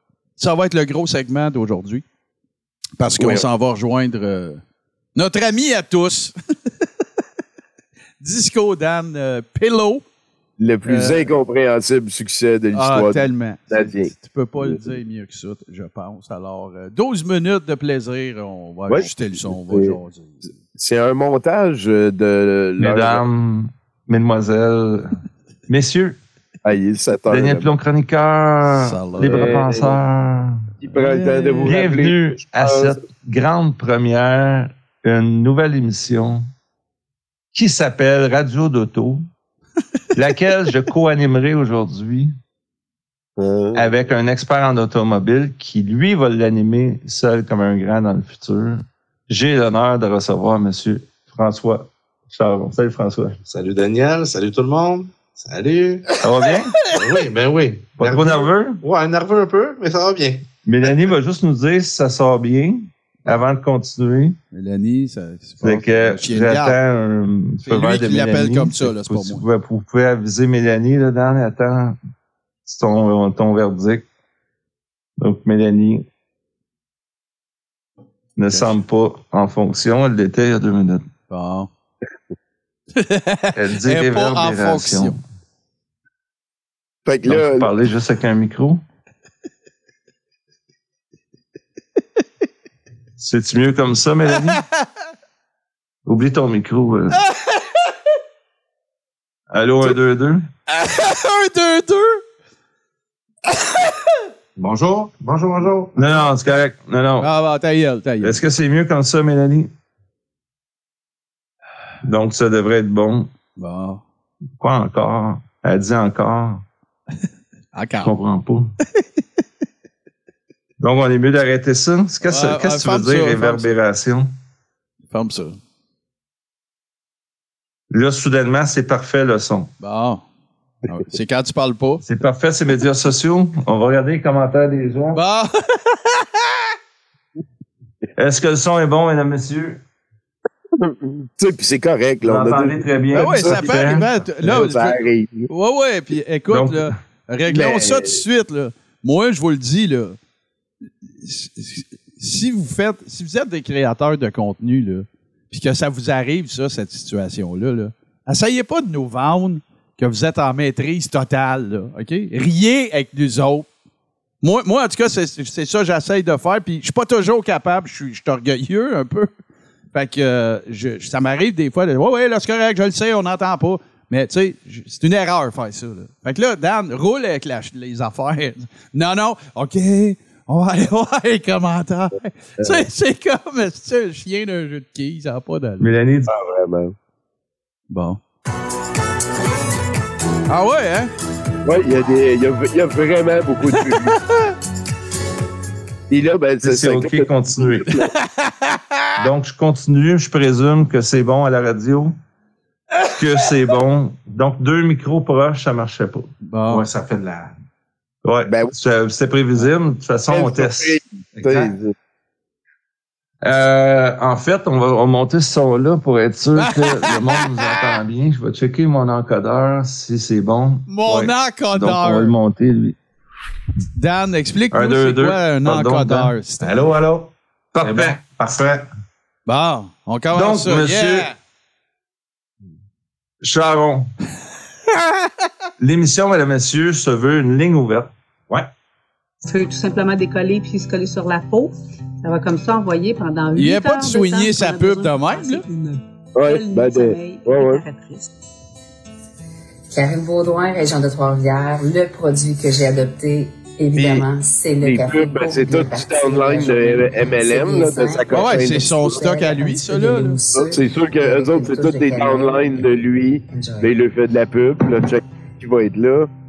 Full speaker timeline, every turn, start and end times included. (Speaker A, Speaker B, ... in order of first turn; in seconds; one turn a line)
Speaker A: 0.4-2.0
Speaker A: 3.0-4.6
Speaker B: 3.2-3.5
Speaker A: 5.2-6.3
Speaker A: 8.2-10.0
Speaker B: 10.6-14.8
Speaker A: 10.8-11.3
Speaker A: 12.7-20.5
Speaker B: 18.9-20.0
Speaker B: 20.8-23.2
Speaker C: 22.8-26.2
Speaker B: 26.6-27.7
Speaker C: 27.3-30.6
Speaker A: 28.7-29.6
Speaker B: 29.3-30.0
Speaker B: 30.8-33.0
Speaker A: 30.9-31.8
Speaker C: 31.6-36.5
Speaker C: 37.5-39.3
Speaker C: 40.1-42.4
Speaker C: 43.7-53.4
Speaker D: 53.5-56.0
Speaker C: 56.2-56.9
Speaker D: 56.9-60.5
Speaker C: 58.0-58.8
Speaker C: 60.6-64.4
Speaker A: 64.5-66.8
Speaker C: 65.6-72.0
Speaker A: 67.6-69.5
Speaker C: 72.7-74.1
Speaker C: 75.2-76.0
Speaker C: 78.4-81.1
Speaker A: 78.5-78.8
Speaker A: 81.3-81.7
Speaker A: 83.0-85.2
Speaker C: 83.5-85.2
Speaker B: 87.1-87.7
Speaker C: 87.2-88.8
Speaker C: 93.2-94.6
Speaker C: 96.1-97.2
Speaker C: 99.5-100.5
Speaker A: 100.7-102.2
Speaker D: 104.6-106.0
Speaker C: 106.0-107.3
Speaker A: 107.2-108.4
Speaker C: 108.2-109.7
Speaker C: 112.0-113.3
Speaker A: 113.6-114.0
Speaker C: 114.6-116.7
Speaker A: 117.7-118.2
Speaker C: 118.0-118.7
Speaker C: 120.8-124.4
Speaker A: 122.2-123.7
Speaker A: 125.1-125.6
Speaker C: 127.9-129.7
Speaker A: 129.8-130.2
Speaker A: 130.9-132.0
Speaker C: 132.0-135.2
Speaker A: 135.1-136.3
Speaker C: 138.2-139.8
Speaker B: 140.8-142.8
Speaker C: 142.2-144.2
Speaker A: 143.1-150.2
Speaker B: 144.4-145.5
Speaker C: 146.5-146.9
Speaker B: 147.5-148.2
Speaker A: 151.1-163.7
Speaker A: 164.4-169.3
Speaker A: 169.9-185.9
Speaker B: 182.6-182.9
Speaker C: 185.8-186.3
Speaker B: 186.3-186.9
Speaker A: 187.9-188.2
Speaker A: 190.5-191.1
Speaker B: 191.7-194.2
Speaker A: 193.7-194.2
Speaker B: 196.1-198.1
Speaker C: 196.6-198.0
Speaker A: 198.2-198.8
Speaker C: 199.2-202.2
Speaker C: 203.2-206.3
Speaker A: 206.4-206.9
Speaker D: 206.7-207.5
Speaker C: 208.2-211.6
Speaker B: 208.5-208.7
Speaker B: 210.3-211.9
Speaker D: 211.4-211.7
Speaker C: 213.4-223.0
Speaker A: 216.6-217.9
Speaker A: 220.9-222.3
Speaker A: 224.0-226.9
Speaker C: 224.7-226.3
Speaker D: 226.6-228.8
Speaker C: 227.7-228.7
Speaker A: 229.5-231.3
Speaker C: 230.3-231.3
Speaker C: 233.4-234.1
Speaker C: 235.8-238.6
Speaker E: 239.4-248.3
Speaker A: 243.6-245.6
Speaker B: 246.4-247.8
Speaker F: 249.9-264.0
Speaker B: 253.9-254.3
Speaker B: 254.8-259.2
Speaker A: 258.3-260.4
Speaker B: 260.6-266.3